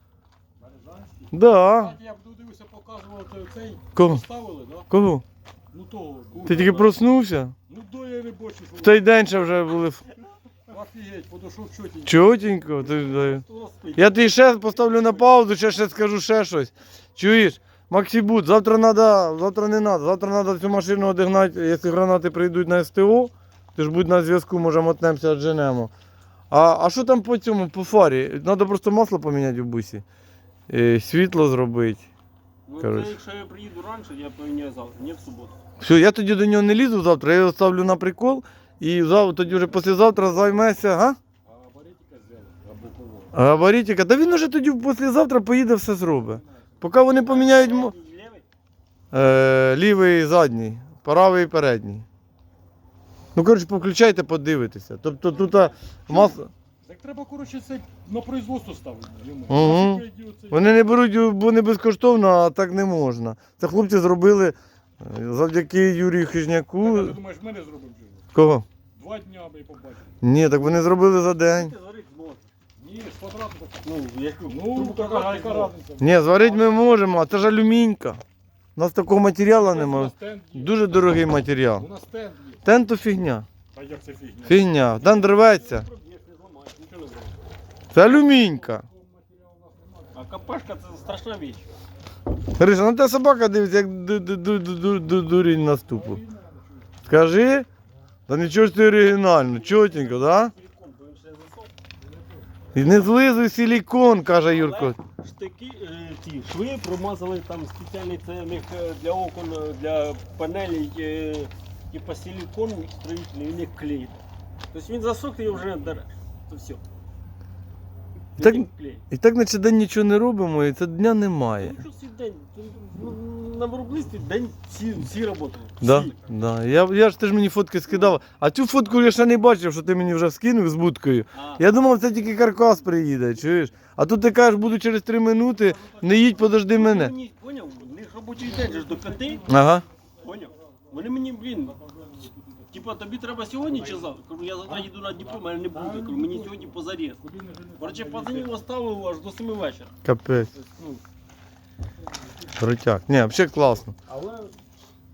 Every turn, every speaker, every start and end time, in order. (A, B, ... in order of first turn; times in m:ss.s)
0:00.6-0:04.9 A
0:01.3-0:02.0 B
0:04.0-0:04.2 B
0:04.9-0:05.2 B
0:05.7-0:06.9 A
0:06.4-0:07.6 B
0:06.5-0:06.9 C
0:07.7-0:09.2 A
0:08.8-0:10.0 B
0:10.7-0:12.2 A
0:12.0-0:13.4 B
0:12.8-0:14.3 C
0:14.0-0:25.9 B
0:26.5-0:30.0 B
0:30.7-0:32.1 B
0:32.7-0:35.6 C
0:32.8-0:33.2 B
0:35.8-0:41.2 B
0:41.4-0:43.3 A
0:43.3-0:47.9 B
0:46.2-0:46.9 A
0:47.1-0:48.4 C
0:49.1-0:52.0 B
0:53.4-0:56.5 B
0:55.3-0:56.3 C
0:56.8-1:00.8 A
0:59.5-1:07.2 B
1:06.8-1:08.2 A
1:08.4-1:08.7 B
1:08.9-1:10.1 A
1:10.2-1:11.7 B
1:11.4-1:12.5 C
1:12.8-1:13.8 A
1:13.8-1:15.8 C
1:14.5-1:17.2 A
1:16.0-1:18.2 B
1:18.8-1:21.9 B
1:19.5-1:21.2 A
1:21.8-1:22.6 A
1:22.6-1:23.5 B
1:23.7-1:24.7 A
1:24.4-1:25.9 B
1:25.0-1:27.4 C
1:27.9-1:28.8 B
1:28.2-1:30.2 A
1:30.1-1:31.6 C
1:32.6-1:36.2 B
1:35.9-1:37.0 A
1:37.0-1:37.7 B
1:38.3-1:40.5 B
1:39.3-1:41.7 C
1:42.0-1:42.5 A
1:42.7-1:45.0 B
1:44.4-1:56.8 C
1:58.4-1:59.0 C
1:58.4-2:01.8 B
2:01.6-2:06.3 C
2:05.8-2:17.1 B
2:07.9-2:08.2 C
2:11.3-2:11.6 C
2:15.9-2:19.5 C
2:18.4-2:22.8 A
2:19.5-2:19.9 B
2:20.2-2:21.8 C
2:22.7-2:27.2 C
2:23.7-2:24.1 A
2:24.7-2:28.5 A
2:27.8-2:29.9 C
2:30.0-2:30.5 B
2:30.5-2:31.0 C
2:32.6-2:33.9 B
2:34.0-2:34.6 C